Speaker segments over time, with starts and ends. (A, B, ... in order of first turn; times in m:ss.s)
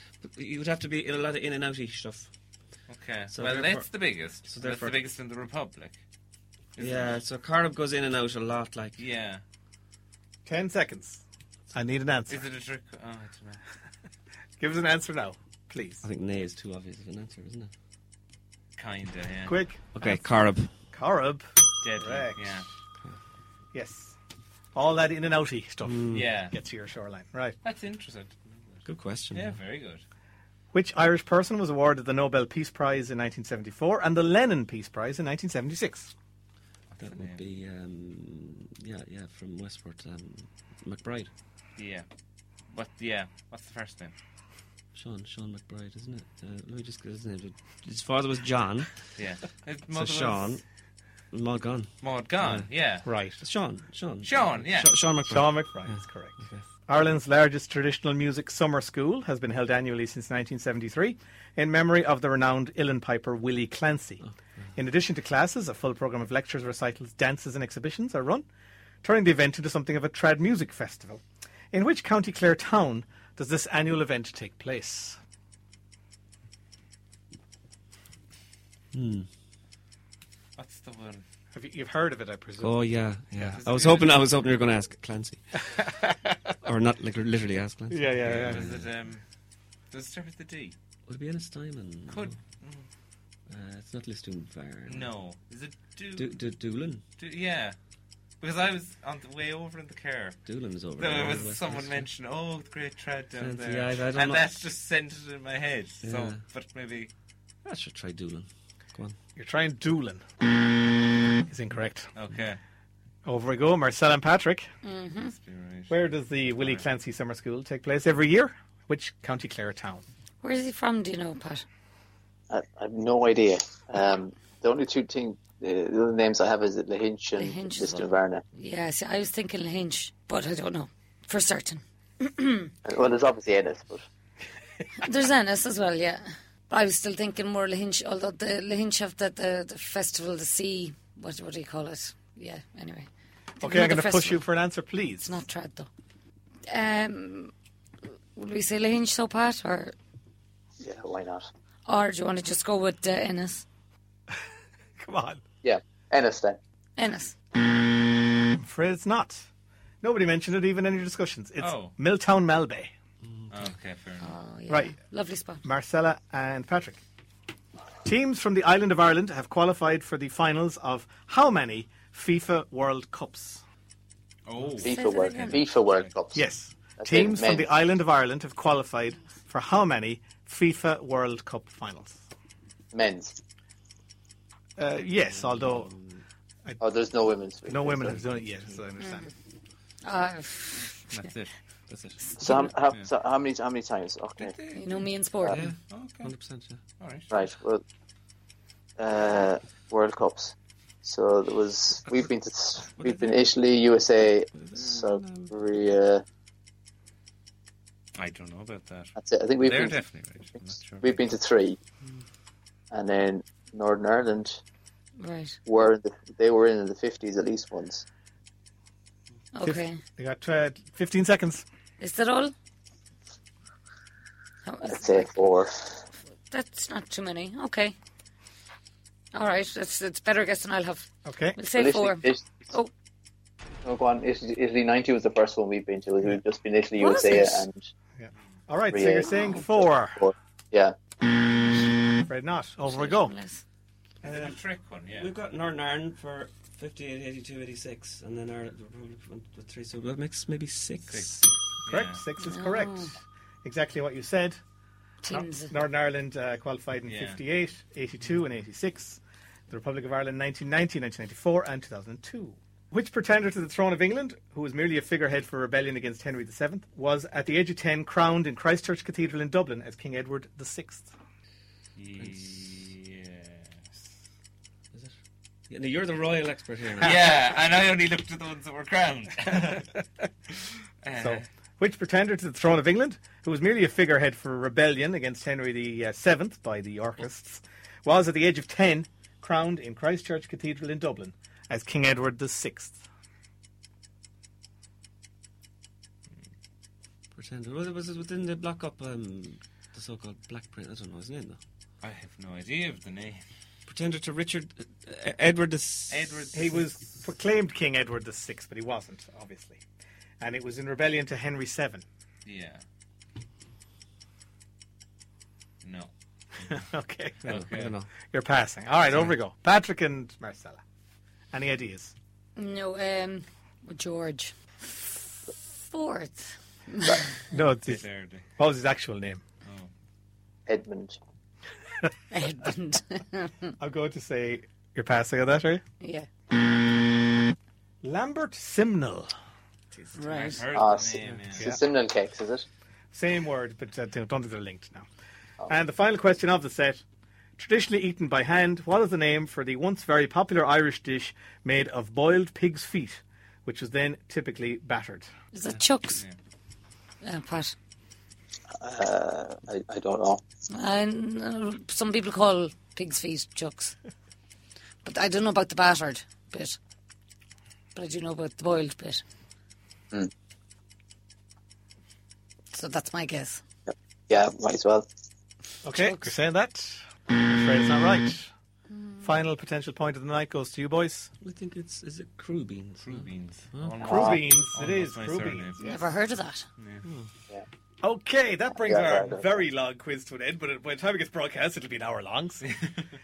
0:00.2-0:02.3 A
0:02.9-0:06.0 B
0:03.3-0:05.1 A
0:06.8-0:07.2 B
0:06.8-0:09.0 A
0:09.0-0:09.4 B
0:10.4-0:11.2 C
0:11.7-0:12.4 C
0:12.3-0:13.6 B
0:14.6-0:16.0 C
0:16.0-0:17.7 A
0:18.8-0:19.6 B
0:19.4-0:20.2 C
0:19.9-0:20.7 A
0:20.9-0:21.4 C
0:21.8-0:22.7 B
0:22.0-0:22.6 C
0:23.7-0:24.2 C
0:24.7-0:27.6 C
0:25.8-0:26.4 A
0:26.1-0:26.6 B
0:27.6-0:30.0 B
0:28.9-0:29.6 A
0:30.7-0:36.1 C
0:36.9-0:37.4 B
0:37.0-0:41.3 A
0:41.8-0:42.0 B
0:42.6-0:44.1 B
0:44.9-0:50.6 A
0:49.2-0:50.5 B
0:51.3-0:52.8 A
0:52.0-0:53.1 B
0:53.0-0:53.4 C
0:53.4-0:56.6 A
0:54.2-0:55.0 B
0:55.3-1:04.2 C
1:04.8-1:08.4 C
1:09.0-1:15.2 C
1:18.9-1:19.3 A
1:20.6-1:21.2 B
1:21.5-1:23.6 C
1:22.6-1:25.6 A
1:23.5-1:24.2 B
1:26.6-1:28.9 A
1:27.9-1:28.7 C
1:28.2-1:29.2 B
1:29.9-1:30.7 B
1:31.0-1:32.4 A
1:32.1-1:32.9 B
1:33.5-1:35.1 A
1:34.9-1:36.4 B
1:36.1-1:37.0 A
1:37.2-1:37.8 B
1:38.4-1:40.4 B
1:40.4-1:42.1 A
1:41.0-1:47.1 B
1:43.4-1:44.6 A
1:46.0-1:46.4 A
1:47.6-1:49.2 A
1:49.4-1:50.2 C
1:51.4-1:52.1 C
1:52.1-1:52.6 B
1:53.2-1:54.7 C
1:54.8-1:55.3 D
1:55.2-1:56.0 B
1:55.9-2:00.0 C
1:56.5-1:56.8 B
2:00.4-2:01.6 D
2:02.5-2:08.4 E
2:07.4-2:12.7 D
2:12.8-2:14.0 E
2:15.0-2:23.1 D
2:23.6-2:24.5 D
2:23.6-2:25.4 C
2:25.2-2:25.9 D
2:26.7-2:27.5 D
2:28.3-2:29.9 D
2:30.8-2:31.5 E
2:31.9-2:33.6 D
2:35.0-2:35.4 C
2:35.6-2:36.6 E
2:37.0-2:37.4 D
2:38.5-2:39.5 C
2:40.0-2:42.9 C
2:41.6-2:41.9 B
2:43.2-2:43.7 A
2:43.5-2:44.3 B
2:44.2-2:45.6 D
2:44.7-2:45.0 C
2:45.6-2:47.0 C
2:48.0-2:53.6 C
2:54.4-2:56.1 B
2:54.8-2:55.6 D
2:54.8-2:56.4 E
2:56.3-3:02.2 C
2:57.0-2:57.7 E
3:02.9-3:03.4 E
3:04.8-3:05.9 C
3:05.3-3:06.2 A
3:06.8-3:08.2 E
3:07.7-3:09.3 C
3:09.0-3:09.3 D
3:10.0-3:11.0 D
3:11.1-3:11.5 B
3:11.9-3:12.2 A
3:12.4-3:14.6 E
3:14.4-3:15.0 B
3:14.7-3:15.6 D
3:15.5-3:16.8 A
3:15.9-3:16.3 B
3:17.0-3:17.3 B
3:17.3-3:17.8 E
3:19.0-3:26.2 E
3:22.9-3:23.5 A
3:24.6-3:25.5 A
3:28.2-3:31.2 B
3:29.2-3:30.0 E
3:31.0-3:31.8 E
3:32.9-3:34.6 E
3:35.2-3:35.6 D
3:35.6-3:38.0 E
3:39.5-3:40.0 D
3:39.6-3:41.6 C
3:42.0-3:42.5 D
3:44.6-3:45.3 D
3:44.8-3:46.0 E
3:46.5-3:47.9 D
3:49.3-3:52.9 D
3:51.2-3:51.6 C
3:51.7-3:52.7 E
3:53.8-3:57.8 E
3:57.0-3:57.6 D
3:58.2-4:00.2 C
3:58.9-4:00.9 E
3:59.2-3:59.6 D
4:02.2-4:03.3 C
4:02.8-4:03.6 D
4:04.2-4:05.3 B
4:04.2-4:04.6 A
4:05.1-4:11.5 A
4:11.0-4:12.2 B
4:11.9-4:14.6 C
4:12.4-4:13.1 D
4:15.2-4:15.7 D
4:15.3-4:31.1 C
4:17.1-4:17.4 B
4:32.0-4:34.1 B
4:32.2-4:32.7 A
4:35.7-4:37.4 A
4:37.0-4:40.0 B
4:41.0-4:41.4 B
4:41.2-4:53.0 C
4:57.3-5:01.6 A
5:02.0-5:03.4 B
5:03.9-5:06.3 A
5:06.1-5:07.0 B
5:06.5-5:09.8 C
5:10.4-5:12.0 C
5:12.4-5:12.8 B
5:15.8-5:16.1 B
5:16.7-5:17.6 C
5:17.4-5:18.0 B
5:17.4-5:18.1 A
5:18.3-5:20.8 C
5:21.5-5:22.1 C
5:22.6-5:25.0 D
5:25.6-5:27.3 D
5:27.5-5:28.0 C
5:27.8-5:28.4 B
5:28.6-5:29.4 C
5:29.6-5:29.9 B
5:30.7-5:31.2 E
5:32.3-5:33.7 D
5:33.8-5:35.8 C
5:36.0-5:36.3 D
5:38.0-5:39.3 C
5:40.2-5:40.6 D
5:40.3-5:41.7 B
5:40.7-5:42.6 E
5:43.1-5:45.0 C
5:45.7-5:47.0 C
5:47.6-5:55.3 C
5:55.5-5:56.2 D
5:57.2-5:57.8 D
5:58.8-6:00.4 E
6:00.7-6:04.0 D
6:05.0-6:06.8 D
6:07.9-6:09.2 D
6:12.7-6:13.6 D
6:13.9-6:15.1 E
6:15.8-6:18.5 C
6:15.9-6:16.3 D
6:18.9-6:19.2 D
6:19.2-6:21.3 C
6:21.4-6:24.0 A
6:23.0-6:26.0 B
6:24.0-6:24.4 E
6:24.0-6:25.9 C
6:25.8-6:26.7 D
6:26.8-6:27.0 B
6:28.0-6:32.8 C
6:28.8-6:29.6 E
6:32.7-6:33.0 B